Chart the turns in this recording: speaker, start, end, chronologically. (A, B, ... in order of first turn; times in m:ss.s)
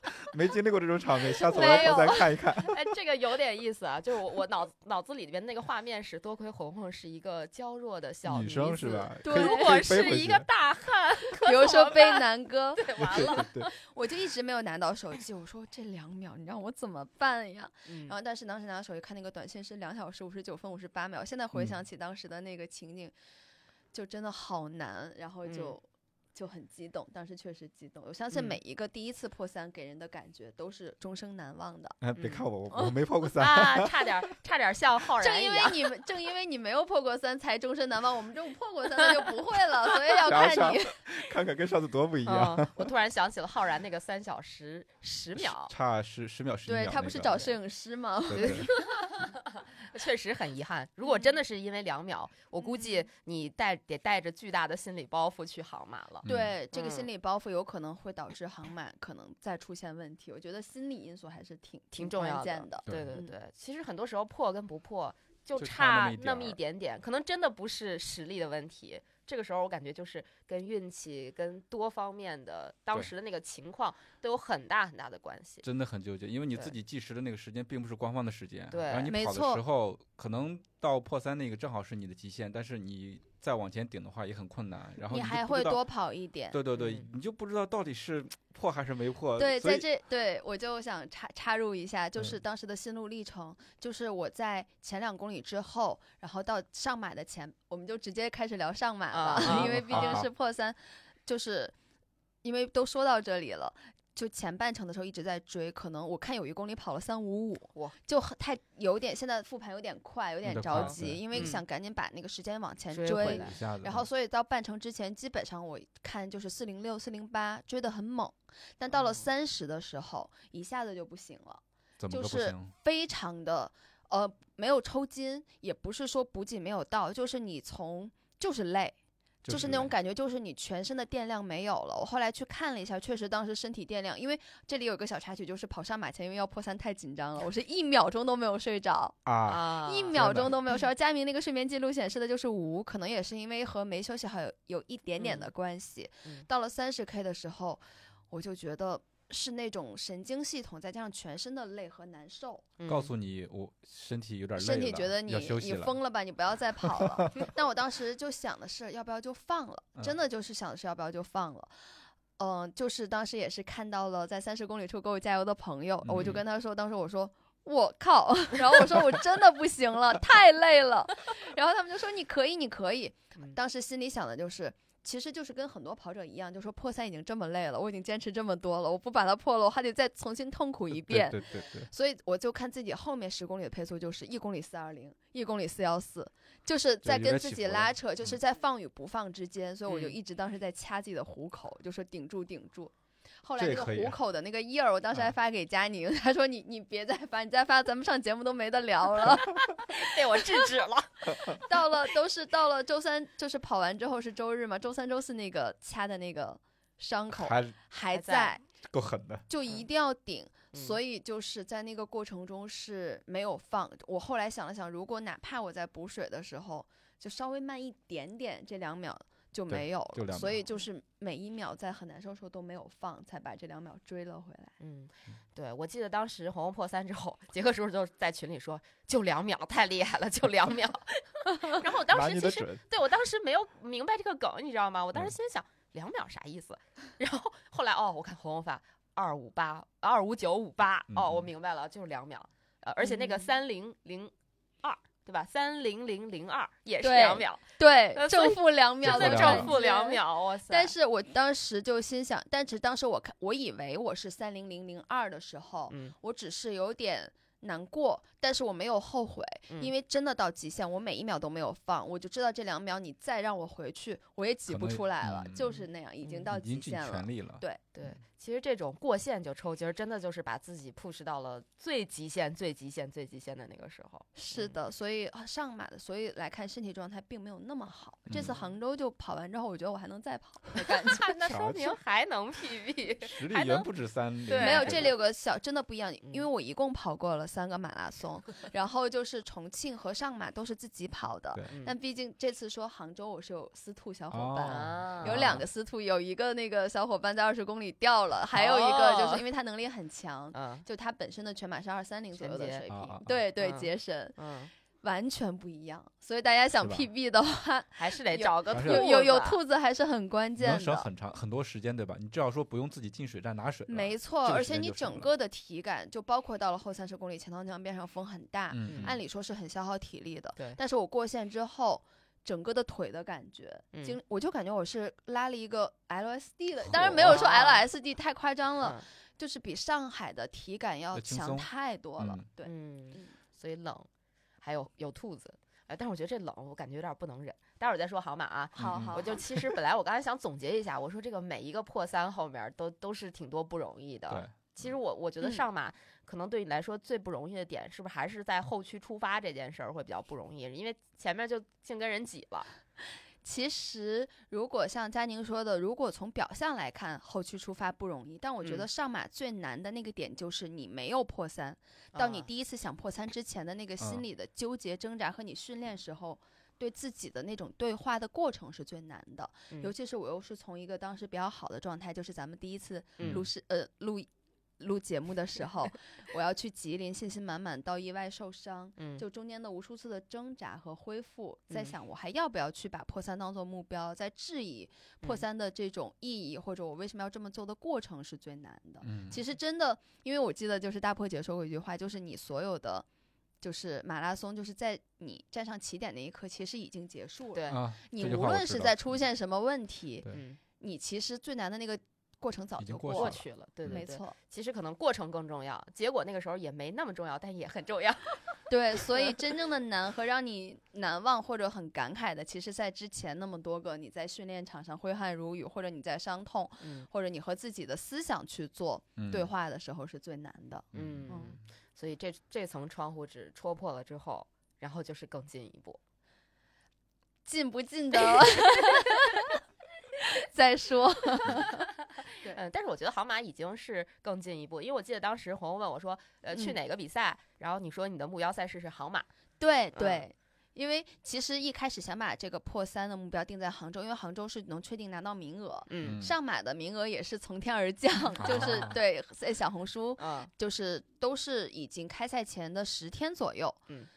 0:00.2-0:02.9 A
0:01.5-0:02.3 B
0:01.5-0:12.2 C
0:08.3-0:10.5 A
0:09.2-0:09.8 B
0:11.4-0:23.1 B
0:12.8-0:13.7 C
0:13.0-0:13.7 A
0:17.9-0:18.2 C
0:23.9-0:25.8 B
0:25.4-0:25.8 C
0:26.4-0:32.0 B
0:28.3-0:28.6 C
0:32.0-0:34.1 A
0:32.2-0:32.4 C
0:33.4-0:35.9 C
0:35.2-0:41.0 B
0:40.2-0:42.9 A
0:42.2-0:45.7 C
0:45.4-0:47.5 A
0:46.7-0:48.8 B
0:48.3-0:48.7 A
0:48.3-0:57.1 C
0:52.6-0:53.1 B
0:56.2-0:56.6 A
0:56.3-1:03.3 B
1:02.0-1:15.6 C
1:02.9-1:03.2 A
1:05.6-1:06.6 A
1:15.6-1:25.8 A
1:18.7-1:19.1 C
1:19.1-1:19.6 B
1:25.1-1:26.6 B
1:26.5-1:29.9 A
1:26.7-1:27.1 C
1:29.4-1:41.7 B
1:39.1-1:40.2 C
1:39.4-1:40.3 A
1:42.4-2:09.0 B
1:50.4-1:51.5 A
1:50.7-1:51.6 C
1:52.9-1:53.6 C
1:53.1-1:54.1 A
1:58.9-1:59.2 C
2:02.0-2:02.7 A
2:09.4-2:09.9 A
2:09.5-2:19.2 B
2:19.2-2:20.5 A
2:19.5-2:20.5 C
2:19.7-2:32.6 B
2:25.2-2:25.5 C
2:32.8-2:33.1 C
2:32.9-2:36.0 A
2:34.6-2:41.7 B
2:36.9-2:37.3 A
2:42.4-3:20.1 B
2:46.0-2:46.4 A
3:00.9-3:01.9 A
3:07.0-3:08.4 A
3:09.9-3:10.2 C
3:13.6-3:14.2 A
3:19.9-3:21.6 C
3:21.5-3:28.6 B
3:27.3-3:27.8 A
3:28.1-3:28.5 C
3:28.8-3:29.4 A
3:29.5-3:44.7 B
3:39.7-3:40.6 A
3:44.8-4:04.3 C
3:52.1-3:52.8 A
4:01.1-4:01.5 A
4:03.0-4:03.5 B
4:04.8-4:10.9 C
4:07.0-4:27.8 B
4:09.0-4:09.8 A
4:15.9-4:16.2 C
4:24.7-4:25.8 A
4:26.5-4:28.1 A
4:28.0-4:34.8 C
4:34.4-4:41.3 B
4:38.3-4:38.6 A
4:38.3-4:38.7 C
4:40.8-4:43.9 C
4:41.4-4:42.0 A
4:43.2-4:45.1 A
4:44.5-4:45.2 C
4:44.6-5:04.4 B
4:54.3-4:55.7 A
4:54.7-4:55.5 C
4:58.5-4:59.4 C
5:00.5-5:00.8 C
5:02.4-5:02.8 C
5:02.9-5:03.4 A
5:03.6-5:04.7 C
5:05.0-5:11.1 B
5:06.8-5:07.1 A
5:08.0-5:09.6 C
5:08.7-5:09.1 A
5:10.6-5:15.3 A
5:13.9-5:33.3 B
5:18.7-5:19.2 A
5:26.8-5:27.4 A
5:27.2-5:27.8 C
5:31.1-5:32.4 A
5:32.6-5:34.1 C
5:34.6-5:52.7 C
5:38.8-5:39.4 B
5:38.8-5:39.2 A
5:44.3-5:44.9 A
5:53.4-6:14.3 B
6:02.1-6:02.5 C
6:13.2-6:13.4 C
6:13.2-6:13.5 A
6:14.8-6:33.1 B
6:19.0-6:19.2 C
6:29.0-6:29.4 A
6:33.6-6:40.3 B
6:37.5-6:37.8 C
6:37.7-6:39.0 A
6:40.3-6:40.6 C
6:40.8-6:44.4 B
6:42.8-6:44.0 A
6:43.1-6:48.4 C
6:48.7-7:01.6 B
6:56.8-6:57.1 C
6:59.2-6:59.5 A
7:00.9-7:01.4 A
7:00.9-7:06.0 C
7:07.4-7:09.5 B
7:08.3-7:09.2 C
7:10.2-7:11.9 B
7:12.4-7:19.3 C
7:19.6-7:33.8 B
7:20.0-7:20.2 C
7:25.9-7:26.2 C
7:26.0-7:26.3 A
7:28.4-7:29.0 A
7:28.5-7:28.8 C
7:30.2-7:30.5 C